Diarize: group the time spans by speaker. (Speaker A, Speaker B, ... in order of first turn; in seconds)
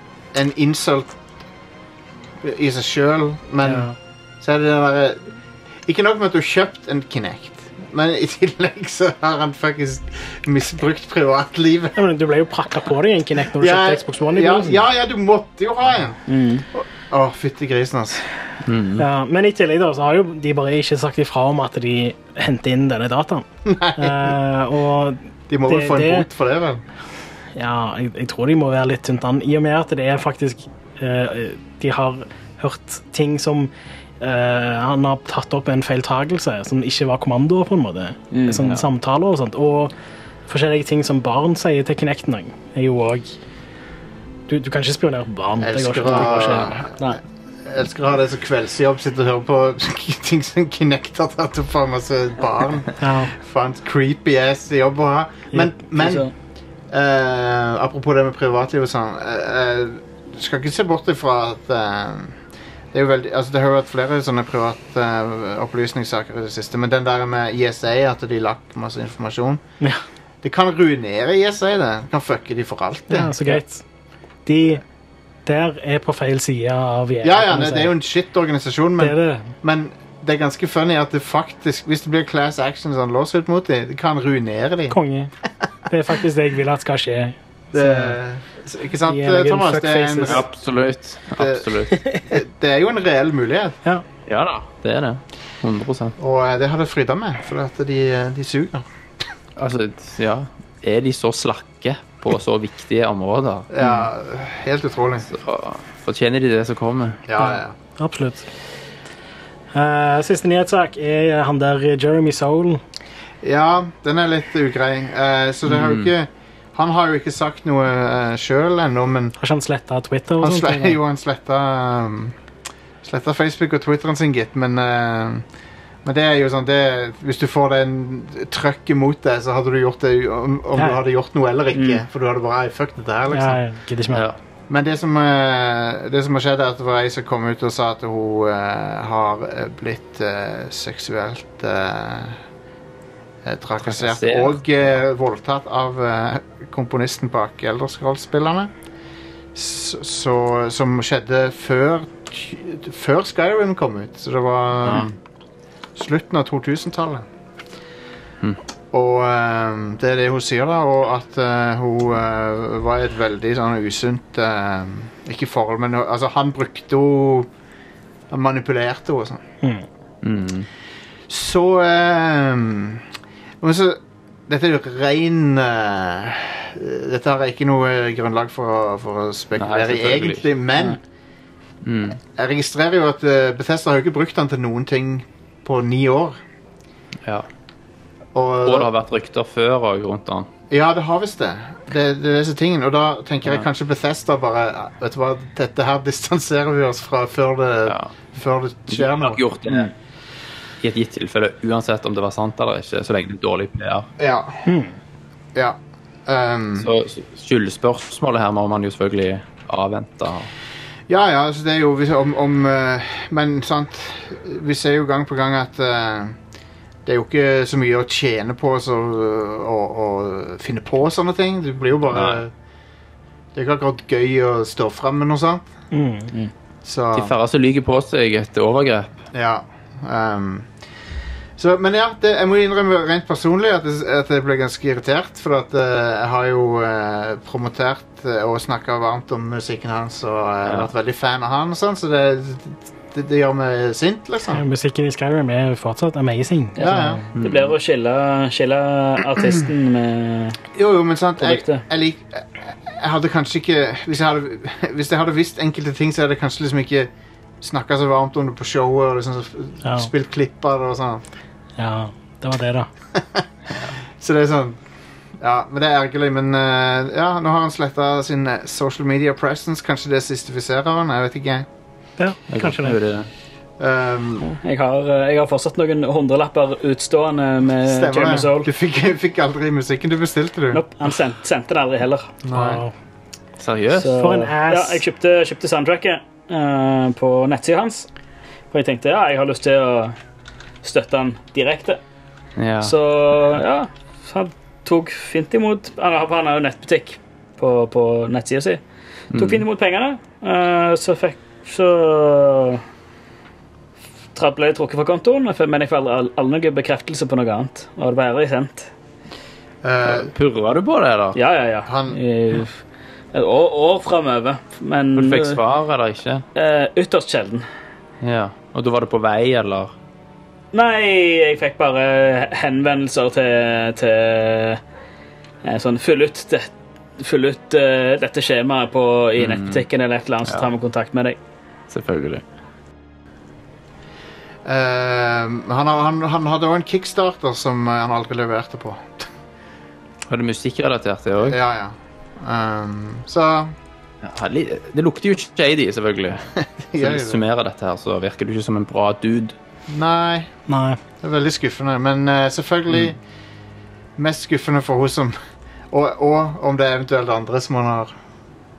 Speaker A: 0.3-1.1, 2.4-3.9, 4.4-5.2, 5.8-12.0, 13.5-16.2, 16.7-18.2, 23.6-24.4, 25.5-26.8, 45.6-56.3, 56.9-62.4, 62.9-69.6, 70.4-73.4, 77.2-85.0, 87.7-90.5, 91.3-93.8, 96.2-98.8, 103.7-105.3, 107.3-107.7, 113.4-119.3, 120.4-122.3, 123.0-125.4, 126.0-133.6, 134.7-142.4, 143.4-148.7, 149.5-155.1, 155.9-157.2, 158.9-167.5, 168.3-169.4, 171.3-173.0, 173.6-181.0, 182.3-186.4, 188.3-188.9, 190.7-199.4, 204.2-204.6, 205.5-206.9, 211.1-216.4, 217.1-222.5, 223.5-225.6, 226.8-227.3, 229.3-230.7, 231.6-244.6, 246.8-247.2, 250.7-257.1, 257.6-261.2, 263.1-263.4, 264.2-264.8, 265.4-271.7, 273.8-274.5, 277.8-280.8, 282.4-282.8, 309.8-310.3, 311.8-312.2, 334.6-339.3, 341.4-343.7, 346.6-347.4, 349.9-350.5, 351.2-353.2, 354.2-355.4, 355.9-358.1
Speaker B: 3.6-3.9, 11.9-14.8, 19.0-26.3, 27.6-39.9, 40.5-43.4, 44.5-46.8, 53.0-53.3, 73.1-73.8, 74.5-74.8, 75.5-77.9, 79.0-79.5, 84.9-85.3, 85.9-88.2, 89.1-90.4, 91.9-92.3, 107.4-108.5, 109.7-112.8, 119.4-121.0, 133.3-134.3, 204.7-204.9, 225.9-226.3, 244.5-247.2, 259.8-260.1, 261.8-262.9, 272.2-273.0, 282.5-282.9, 284.1-285.0, 350.7-351.0
Speaker C: 16.3-16.6, 38.3-38.7, 56.0-56.3, 131.7-132.0, 246.8-250.6, 251.4-251.8, 274.4-278.7, 280.7-282.3, 284.0-288.1, 288.7-290.1, 290.8-292.0, 292.8-298.8, 299.3-302.8, 304.3-308.9, 311.3-312.8, 313.3-315.6, 316.5-317.6, 320.7-324.8, 325.6-331.4
Speaker D: 18.6-19.0, 90.3-91.9, 94.3-96.1, 99.6-103.7, 105.3-107.2, 115.7-116.1, 143.8-144.6, 154.8-155.1, 170.2-170.7, 179.6-180.4, 181.8-182.2, 188.6-190.5, 198.9-199.9, 200.8-204.1, 206.8-210.5, 222.1-222.4, 227.1-229.1, 247.3-247.7, 272.5-273.3, 283.6-284.1, 292.6-292.9, 299.3-299.6, 310.0-311.4, 315.1-316.4, 318.2-319.9, 329.4-329.8, 331.9-332.4, 340.3-341.6, 344.2-346.4, 347.0-349.5